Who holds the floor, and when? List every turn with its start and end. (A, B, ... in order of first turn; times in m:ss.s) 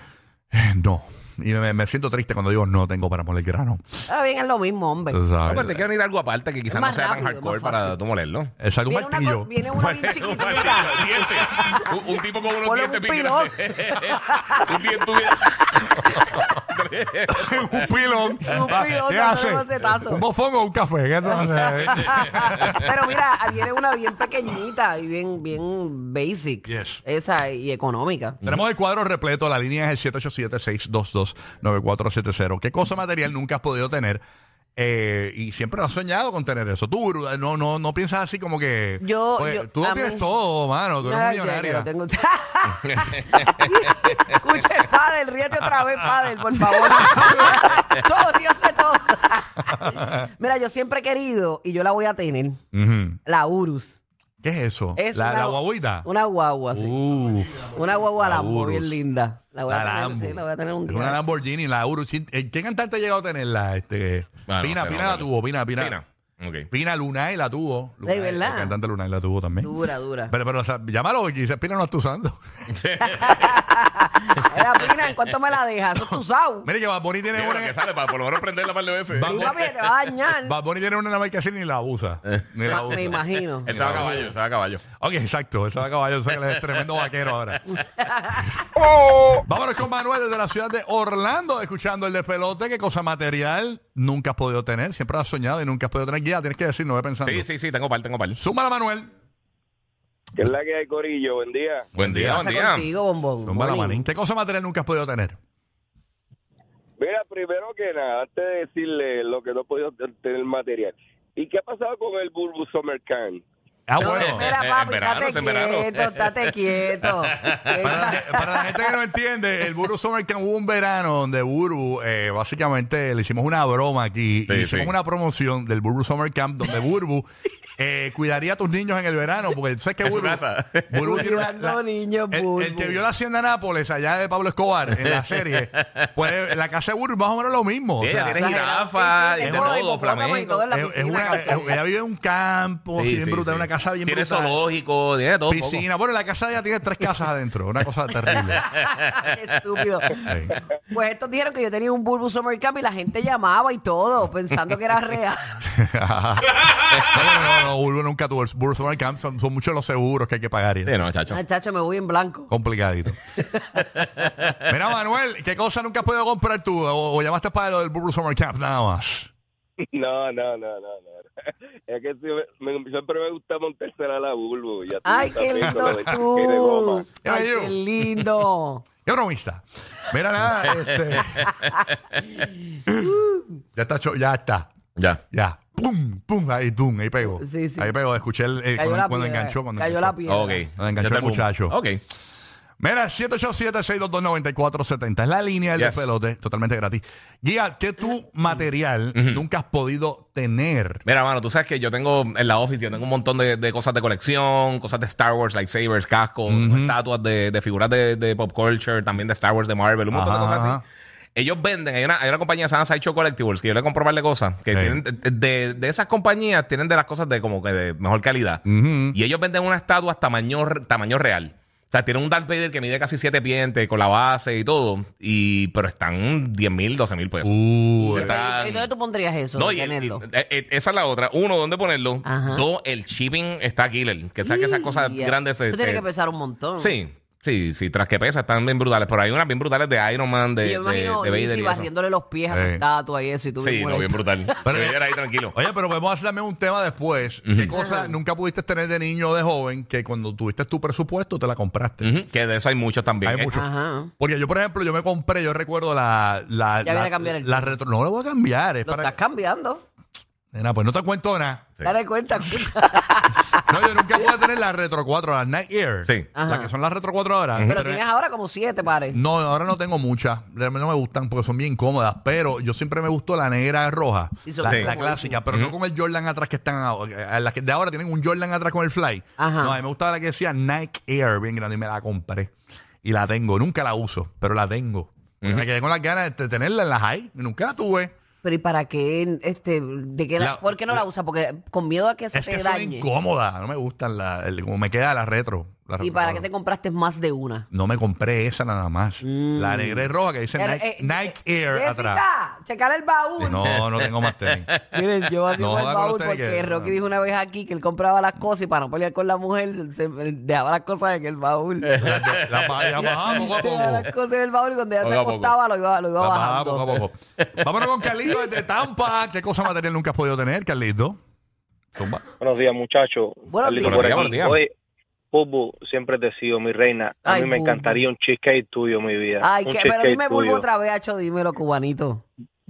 0:00.5-0:03.8 A
0:04.1-0:05.2 B
0:05.1-0:05.8 A
0:05.5-0:08.5 C
0:06.7-0:08.0 B
0:08.6-0:11.4 A
0:08.8-0:11.9 B
0:10.0-0:17.9 C
0:12.6-0:15.0 B
0:17.3-0:22.9 A
0:18.4-0:20.2 B
0:21.3-0:28.4 B
0:26.6-0:27.0 A
0:28.4-0:34.2 A
0:34.8-0:41.9 A
0:39.0-0:40.3 B
0:41.0-0:52.6 B
0:46.6-0:47.6 A
0:52.7-0:53.2 A
0:53.2-0:54.0 B
0:54.4-0:56.1 A
0:55.0-0:56.9 B
0:56.7-0:59.0 A
0:57.7-1:01.2 B
0:59.7-1:06.0 A
1:04.5-1:06.7 C
1:06.7-1:12.4 A
1:08.0-1:08.7 B
1:09.6-1:10.3 B
1:12.7-1:13.6 C
1:13.0-1:16.7 B
1:16.6-1:17.8 A
1:17.3-1:19.5 C
1:19.1-1:24.3 A
1:19.2-1:20.6 B
1:22.3-1:24.8 C
1:22.7-1:24.1 B
1:25.0-1:27.8 A
1:26.5-1:26.9 C
1:29.4-1:37.5 A
1:37.2-1:38.4 C
1:38.4-1:39.1 A
1:40.4-1:41.9 D
1:41.9-1:42.9 C
1:42.0-1:42.4 A
1:42.3-1:44.0 B
1:43.4-1:45.4 A
1:47.0-1:53.4 D
1:53.9-1:54.5 A
1:54.0-1:58.9 B
1:54.0-1:58.0 C
1:57.8-2:07.3 A
2:04.5-2:04.9 C
2:07.8-2:18.4 A
2:10.0-2:10.9 C
2:11.0-2:13.0 B
2:14.9-2:15.8 C
2:18.0-2:21.7 C
2:18.2-2:21.8 B
2:19.4-2:19.8 A
2:20.7-2:24.6 A
2:22.9-2:25.8 C
2:25.5-2:28.7 A
2:28.3-2:35.6 B
2:28.8-2:29.2 C
2:30.2-2:30.6 A
2:35.6-2:41.0 A
2:40.8-2:41.4 C
2:41.3-2:42.5 B
2:42.5-2:43.2 A
2:44.6-2:49.3 A
2:49.9-2:51.3 D
2:51.9-2:57.1 D
2:55.0-2:58.8 B
2:55.6-2:56.2 A
2:57.2-2:58.2 A
2:59.0-3:01.5 A
3:03.0-3:03.4 B
3:03.8-3:04.7 A
3:05.3-3:10.2 A
3:07.3-3:07.9 B
3:08.8-3:10.7 B
3:10.2-3:12.0 C
3:10.7-3:11.8 A
3:12.8-3:21.0 A
3:15.8-3:16.1 C
3:19.1-3:19.4 C
3:21.0-3:30.8 C
3:26.5-3:27.0 A
3:30.1-3:30.8 A
3:31.4-3:47.6 C
3:34.7-3:35.0 A
3:38.6-3:39.2 A
3:47.4-3:48.3 A
3:48.0-3:50.2 B
3:48.1-3:48.9 C
3:49.5-3:56.0 C
3:52.2-3:52.6 B
3:54.4-3:57.0 B
3:56.8-4:01.9 C
4:00.6-4:04.6 B
4:02.5-4:02.8 A
4:03.6-4:05.6 C
4:04.6-4:05.0 A
4:05.5-4:12.1 A
4:07.5-4:07.7 C
4:07.7-4:08.2 B
4:12.0-4:13.6 C
4:13.2-4:13.7 A
4:13.5-4:14.1 B
4:14.2-4:19.1 A
4:16.8-4:17.8 B
4:18.8-4:19.8 B
4:20.5-4:21.7 A
4:21.8-4:24.2 B
4:23.7-4:28.0 A
4:26.3-4:26.7 B
4:27.7-4:29.2 B
4:29.1-4:48.1 A
4:34.4-4:35.4 B
4:34.6-4:34.9 C
4:35.5-4:35.7 C
4:39.4-4:39.8 B
4:48.4-4:53.1 B
4:50.4-4:51.0 A
4:52.3-4:56.5 A
4:56.0-4:57.6 B
4:57.7-5:02.2 A
4:59.2-5:03.8 B
5:03.4-5:04.7 A
5:03.4-5:04.8 C
5:04.9-5:12.0 B
5:05.5-5:07.0 A
5:11.9-5:13.4 C
5:11.9-5:14.1 A
5:13.0-5:17.0 B
5:15.0-5:15.5 C
5:16.2-5:21.2 A
5:21.9-5:22.2 A
5:22.4-5:24.7 E
5:23.5-5:24.2 B
5:23.8-5:24.6 C
5:25.3-5:30.6 E
5:27.2-5:28.0 B
5:29.4-5:32.2 B